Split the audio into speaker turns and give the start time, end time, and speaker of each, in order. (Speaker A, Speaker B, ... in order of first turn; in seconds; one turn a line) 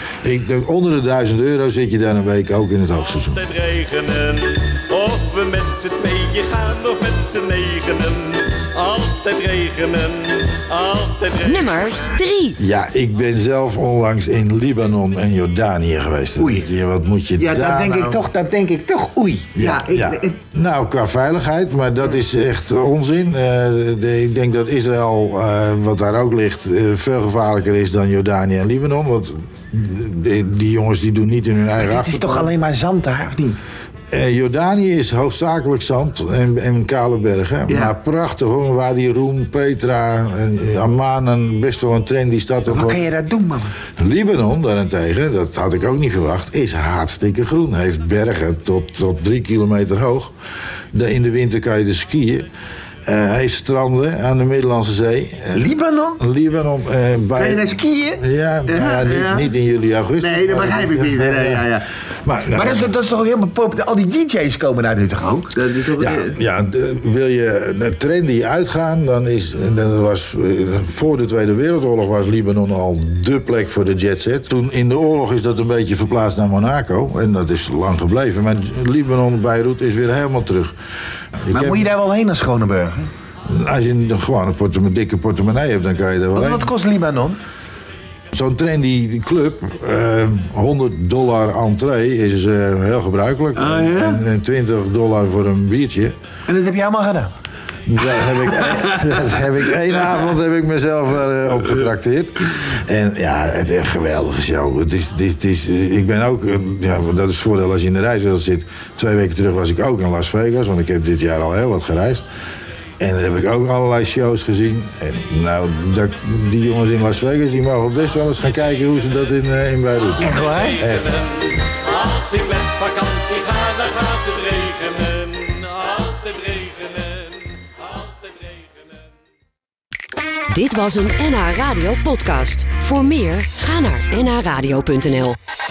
Speaker A: 0.2-3.4
Speaker B: 3.2-11.7
Speaker C: 11.4-12.6
Speaker A: 12.6-18.2
Speaker D: 16.4-16.6
Speaker D: 17.4-20.4
Speaker A: 19.5-32.5
Speaker D: 31.8-33.6
Speaker A: 34.1-43.0
Speaker D: 37.7-37.9
Speaker D: 42.7-43.7
Speaker A: 44.0-50.3
Speaker A: 50.9-52.5
Speaker A: 53.0-61.7
Speaker D: 55.5-56.2
Speaker D: 57.4-59.5
Speaker D: 60.2-61.9
Speaker A: 62.2-62.9
Speaker D: 62.5-66.4
Speaker A: 66.0-80.7
Speaker A: 81.4-81.9
Speaker D: 81.5-83.1
Speaker A: 83.5-86.7
Speaker D: 86.3-87.4
Speaker A: 88.3-96.1
Speaker D: 93.6-94.2
Speaker D: 96.5-97.3
Speaker A: 97.9-112.2
Speaker A: 113.0-121.1
Speaker D: 120.2-120.8
Speaker B: 120.2-128.8
Speaker C: 130.5-135.4